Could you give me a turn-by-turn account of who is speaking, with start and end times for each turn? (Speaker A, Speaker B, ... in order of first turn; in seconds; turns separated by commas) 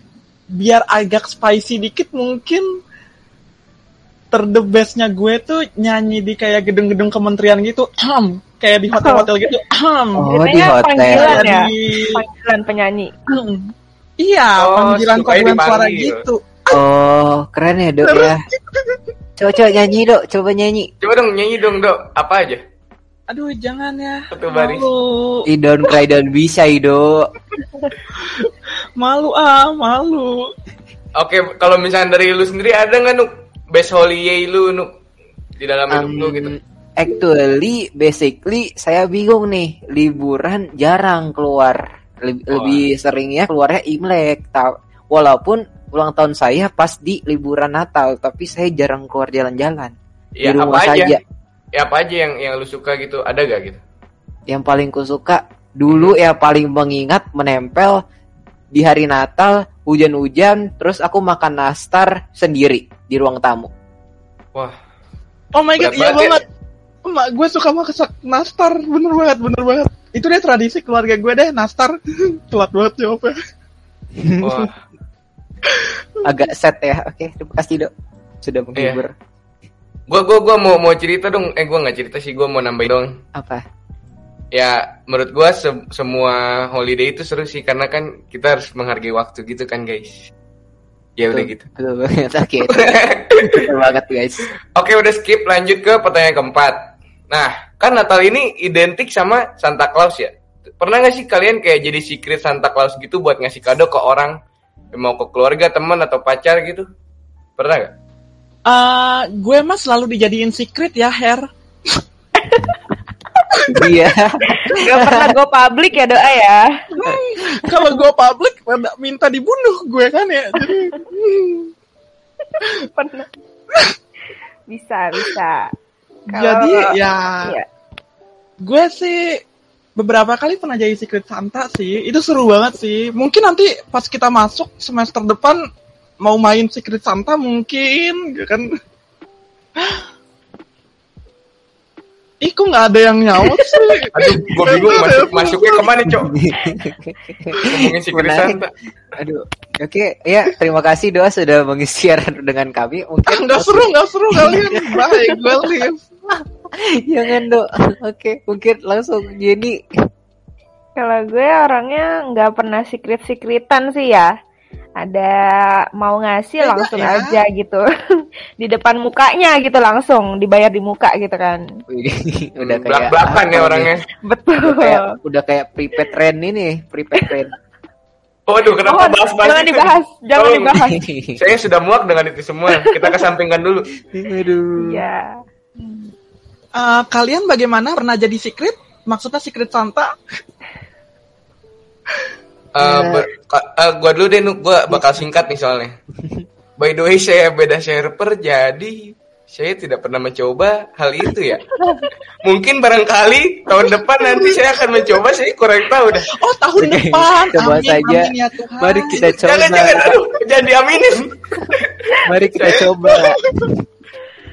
Speaker A: 0.6-2.6, Speaker A: 4.3-10.3, Speaker B: 9.0-9.3, Speaker C: 10.2-11.5, Speaker B: 10.3-13.1, Speaker A: 11.1-12.2, Speaker A: 13.3-16.8, Speaker D: 14.6-16.2, Speaker C: 16.7-18.4, Speaker A: 18.0-19.0, Speaker C: 19.4-20.9, Speaker D: 21.0-22.6, Speaker A: 23.3-25.4, Speaker D: 24.3-24.9, Speaker C: 25.5-27.3, Speaker A: 28.1-30.5, Speaker D: 31.2-34.9, Speaker D: 35.6-36.5, Speaker C: 35.9-51.2, Speaker D: 42.5-42.8, Speaker D: 50.4-51.2, Speaker D: 51.8-53.8, Speaker C: 54.5-58.0, Speaker C: 58.7-63.7, Speaker A: 65.5-66.4, Speaker D: 65.8-66.4, Speaker A: 67.0-73.3, Speaker C: 74.2-74.7, Speaker D: 74.4-74.8, Speaker A: 75.7-76.3, Speaker C: 76.2-79.1, Speaker D: 78.8-79.0, Speaker D: 80.1-83.2, Speaker C: 83.3-83.6, Speaker D: 84.5-90.3, Speaker D: 91.2-91.6, Speaker C: 91.3-94.5, Speaker D: 92.7-93.7, Speaker D: 94.8-104.4, Speaker D: 104.9-106.9, Speaker D: 107.6-107.9, Speaker A: 108.7-112.0, Speaker B: 112.4-112.8, Speaker C: 113.7-115.3, Speaker B: 114.6-116.6, Speaker A: 116.9-121.7, Speaker C: 117.1-117.6, Speaker B: 122.5-123.3, Speaker B: 124.7-125.7, Speaker A: 126.3-127.6, Speaker B: 126.3-127.7, Speaker A: 128.6-129.4, Speaker A: 130.0-135.6, Speaker A: 136.2-138.7, Speaker A: 139.8-140.1, Speaker A: 142.4-145.9, Speaker D: 144.1-146.3, Speaker C: 146.1-148.6, Speaker D: 147.6-148.7, Speaker C: 149.2-155.0, Speaker A: 153.3-156.1, Speaker C: 156.8-159.8, Speaker B: 161.0-164.3, Speaker B: 165.0-167.8, Speaker A: 166.6-167.4, Speaker B: 168.6-171.6, Speaker C: 171.9-173.9, Speaker D: 172.6-174.0, Speaker B: 174.2-175.0, Speaker C: 174.6-177.5, Speaker D: 178.5-180.8, Speaker B: 178.9-181.0, Speaker C: 180.9-181.4, Speaker D: 181.4-183.9, Speaker B: 182.7-183.2, Speaker C: 184.1-185.1, Speaker B: 184.8-185.3, Speaker A: 186.8-190.1, Speaker D: 192.7-195.9, Speaker C: 192.8-193.3, Speaker C: 194.9-195.3, Speaker C: 196.2-196.4, Speaker D: 196.8-201.6, Speaker D: 202.4-206.3, Speaker A: 204.3-204.6, Speaker A: 206.1-209.3, Speaker C: 206.8-210.2, Speaker D: 209.2-212.9, Speaker C: 211.6-213.8, Speaker A: 213.1-213.7